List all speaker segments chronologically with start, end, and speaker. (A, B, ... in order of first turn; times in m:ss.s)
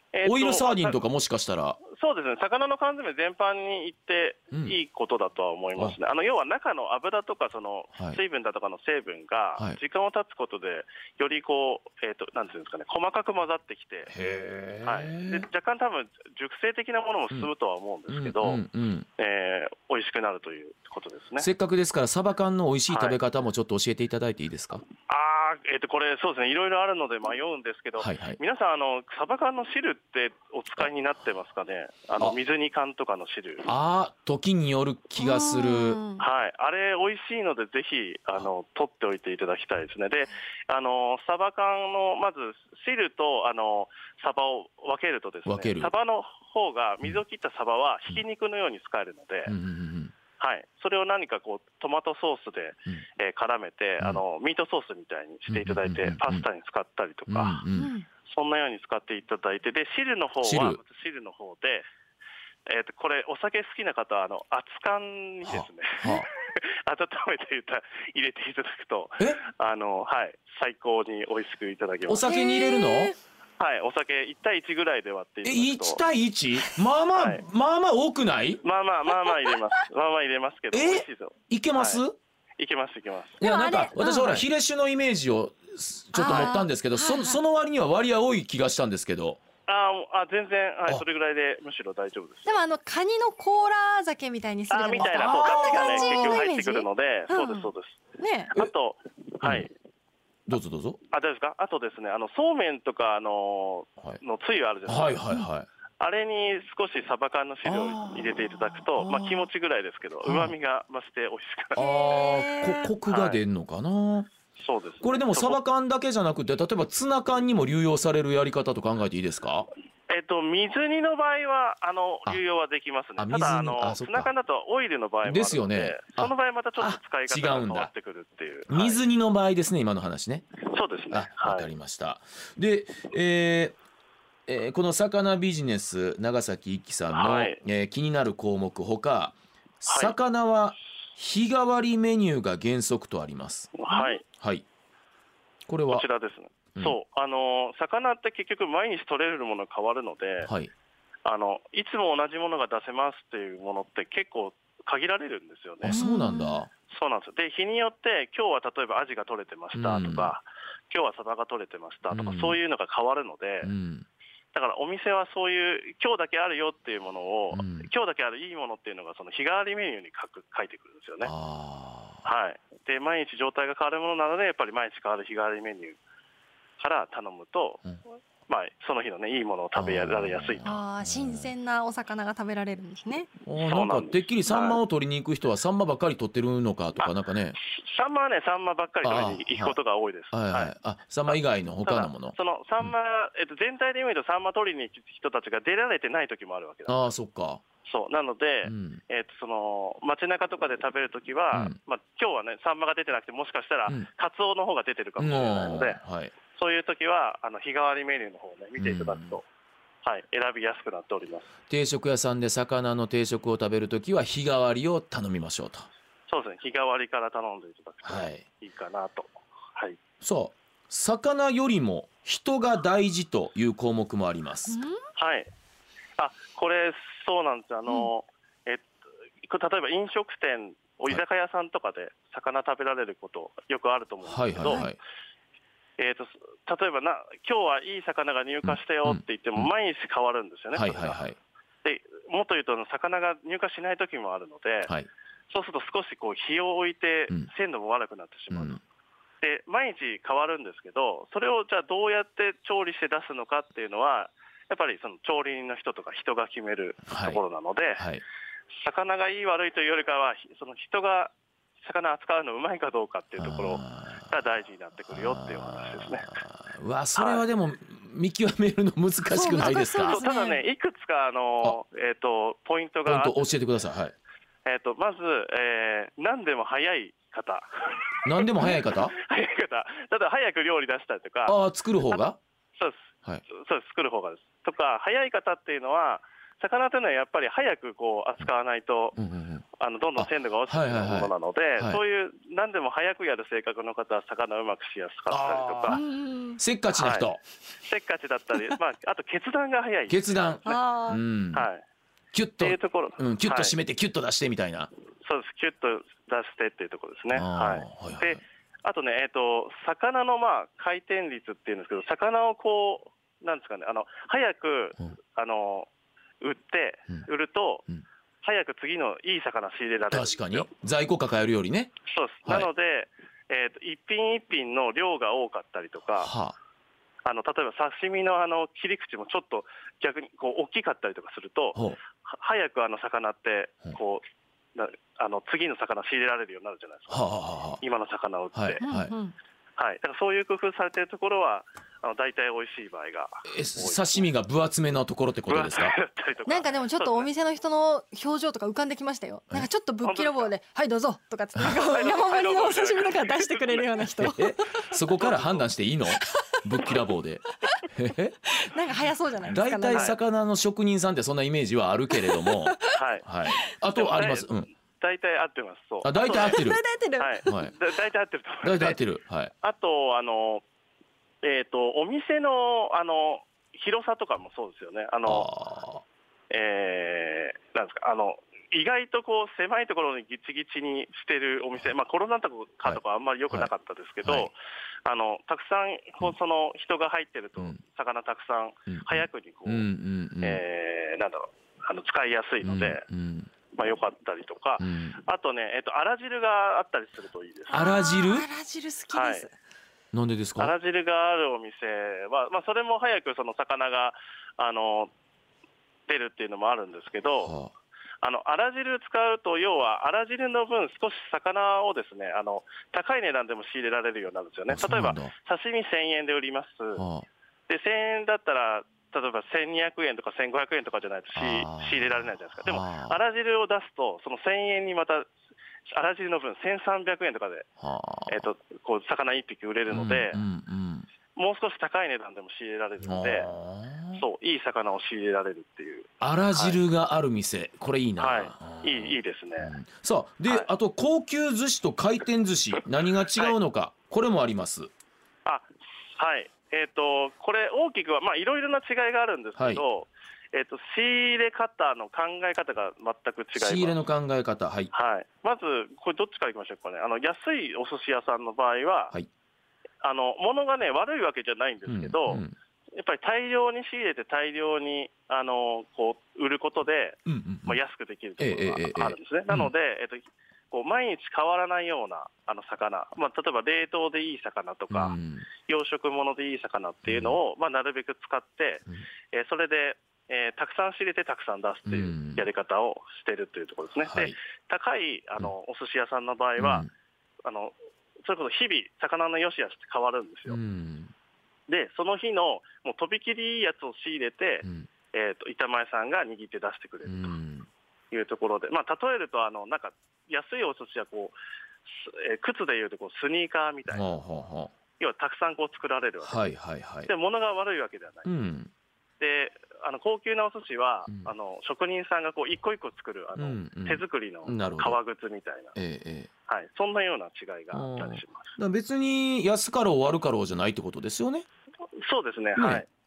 0:00.1-0:01.0 A
0:00.2-0:01.8 B
0:01.8-0:14.1 A
0:04.5-0:04.8 B
0:14.1-0:15.5 B
0:14.8-0:18.6 A
0:18.1-0:19.1 B
0:19.2-0:21.5 A
0:21.4-0:24.8 B
0:22.9-0:23.2 A
0:25.1-0:33.7 A
0:28.0-0:28.4 B
0:33.7-0:36.0 B
0:35.2-0:36.2 C
0:36.2-0:49.6 A
0:45.5-0:45.9 B
0:49.5-0:50.1 B
0:50.4-0:57.6 A
0:55.5-0:56.4 B
0:57.3-0:57.9 B
0:57.7-0:58.1 C
0:58.2-1:01.9 A
1:00.4-1:00.8 B
1:02.7-1:12.3 A
1:05.5-1:06.3 B
1:12.1-1:13.2 B
1:12.2-1:13.2 C
1:13.6-1:16.0 A
1:15.4-1:18.6 B
1:17.2-1:17.4 A
1:18.6-1:22.0 A
1:20.7-1:22.2 B
1:22.6-1:23.4 A
1:23.4-1:29.4 B
1:23.4-1:24.5 C
1:26.1-1:27.4 C
1:29.7-1:32.6 A
1:32.5-1:38.5 C
1:34.7-1:38.0 A
1:35.0-1:36.4 B
1:38.5-1:39.7 A
1:39.4-1:39.7 B
1:40.5-1:41.0 B
1:41.1-1:45.2 A
1:44.9-1:45.7 B
1:46.0-1:51.9 A
1:47.6-1:49.5 B
1:50.2-1:50.5 B
1:51.8-1:54.3 B
1:51.8-1:52.9 C
1:53.1-1:53.4 A
1:54.6-1:55.6 A
1:55.0-1:59.7 B
2:00.1-2:09.0 A
2:03.2-2:04.3 B
2:05.2-2:07.9 B
2:08.7-2:10.5 B
2:10.7-2:11.7 A
2:11.1-2:13.8 B
2:14.5-2:24.6 B
2:17.1-2:17.6 A
2:19.9-2:20.2 A
2:23.8-2:24.2 A
2:23.9-2:24.1 C
2:25.7-2:26.1 B
2:25.9-2:30.5 A
2:30.4-2:30.7 B
2:31.2-2:36.0 A
2:35.8-2:36.7 B
2:35.9-2:36.6 C
2:36.9-2:43.7 A
2:39.7-2:40.3 B
2:42.1-2:42.6 B
2:43.6-2:44.1 B
2:44.5-2:51.3 A
2:47.5-2:47.9 B
2:51.2-2:52.2 B
2:52.2-2:56.0 A
2:56.8-2:57.9 A
2:58.5-3:00.7 A
2:59.8-3:01.5 B
3:00.6-3:03.3 C
3:03.5-3:07.6 B
3:03.6-3:04.8 A
3:07.0-3:10.7 A
3:09.0-3:09.8 B
3:10.3-3:12.9 B
3:11.3-3:17.1 A
3:16.9-3:17.6 B
3:17.9-3:26.0 A
3:18.6-3:19.0 B
3:25.2-3:26.3 B
3:26.5-3:29.4 A
3:28.8-3:29.4 B
3:30.0-3:31.5 A
3:31.7-3:35.9 B
3:36.3-3:40.0 A
3:38.0-3:38.4 B
3:40.2-3:44.8 B
3:44.7-3:45.0 C
3:45.2-3:45.5 A
3:46.2-3:48.8 A
3:49.4-3:54.9 A
3:54.3-3:55.0 B
3:56.0-4:01.2 A
3:58.6-3:59.7 B
4:00.7-4:01.4 B
4:01.8-4:04.9 A
4:05.5-4:08.8 A
4:08.5-4:08.8 B
4:09.4-4:18.0 A
4:17.1-4:17.4 B
4:18.0-4:18.2 B
4:18.7-4:26.4 A
4:23.4-4:24.3 B
4:25.1-4:30.2 B
4:27.2-4:27.5 A
4:29.3-4:30.6 C
4:30.1-4:33.5 A
4:33.1-4:34.1 B
4:34.7-4:49.2 A
4:38.2-4:39.2 B
4:41.5-4:42.4 B
4:49.2-4:49.6 B
4:49.7-4:56.0 A
4:50.2-4:52.0 B
4:55.3-4:56.0 B
4:55.9-4:56.6 C
4:56.6-4:57.4 B
4:57.0-4:57.3 A
4:57.8-5:00.6 A
5:00.1-5:01.7 B
5:00.7-5:01.2 C
5:01.5-5:01.8 A
5:02.3-5:04.9 B
5:02.6-5:03.8 A
5:05.2-5:15.9 A
5:07.3-5:08.4 B
5:16.4-5:17.8 A
5:18.4-5:20.7 A
5:20.1-5:21.9 B
5:22.1-5:26.3 A
5:26.2-5:26.6 B
5:27.2-5:34.2 A
5:34.8-5:38.8 A
5:37.1-5:37.8 B
5:38.5-5:39.1 B
5:38.8-5:39.3 C
5:39.8-5:44.3 A
5:43.5-5:46.0 B
5:45.5-5:47.3 A
5:46.5-5:54.9 C
5:50.0-5:50.5 A
5:51.8-5:54.1 A
5:54.2-5:58.5 B
5:55.2-5:55.6 A
5:56.2-5:56.9 C
5:58.5-6:00.1 C
5:59.5-6:04.7 B
6:02.1-6:02.9 C
6:02.9-6:03.3 A
6:03.9-6:06.7 A
6:06.0-6:06.8 B
6:06.2-6:07.5 C
6:07.2-6:09.0 A
6:07.5-6:07.7 B
6:08.6-6:09.5 B
6:09.6-6:10.6 A
6:11.4-6:15.5 A
6:15.3-6:16.0 B
6:16.5-6:29.9 A
6:22.8-6:23.7 B
6:24.2-6:24.5 B
6:28.9-6:30.6 B
6:30.4-6:33.1 A
6:32.6-6:33.5 B
6:33.7-6:37.8 A
6:34.8-6:35.2 B
6:37.7-6:38.5 B
6:37.7-6:39.5 C
6:39.1-6:39.4 A
6:40.1-6:40.8 B
6:40.6-6:45.1 A
6:46.1-6:47.5 A
6:47.4-6:47.7 B
6:48.2-6:57.0 A
6:54.7-6:55.3 B
6:57.0-6:57.3 B
6:57.7-7:05.3 A
7:01.4-7:03.2 B
7:05.9-7:07.7 A
7:07.8-7:08.4 B
7:08.3-7:10.4 A
7:09.9-7:11.1 B
7:11.4-7:13.5 A
7:13.0-7:14.2 B
7:14.2-7:16.8 A
7:16.2-7:24.9 B
7:18.2-7:19.7 A
7:25.4-7:34.0 A
7:29.6-7:29.8 B
7:33.6-7:34.9 B
7:34.9-7:39.2 A
7:40.0-7:42.4 A
7:41.9-7:42.5 B
7:43.0-8:06.9 A
7:47.3-7:47.8 B
7:48.4-7:49.7 B
7:54.9-7:55.5 B
7:57.0-7:57.4 B
8:01.9-8:02.5 B
8:04.0-8:04.4 B
8:06.6-8:06.9 B
8:07.4-8:10.6 A
8:10.5-8:11.1 B
8:11.7-8:17.4 A
8:14.6-8:14.9 B
8:17.0-8:17.7 B
8:18.1-8:21.4 A
8:21.9-8:24.1 A
8:23.9-8:24.7 B
8:25.0-8:26.4 A
8:26.2-8:27.1 B
8:27.0-8:28.3 A
8:28.3-8:28.7 B
8:29.2-8:35.8 A
8:33.4-8:35.0 B
8:35.8-8:36.3 B
8:36.5-8:38.6 A
8:37.7-8:41.4 B
8:42.0-8:42.9 A
8:42.6-8:42.8 B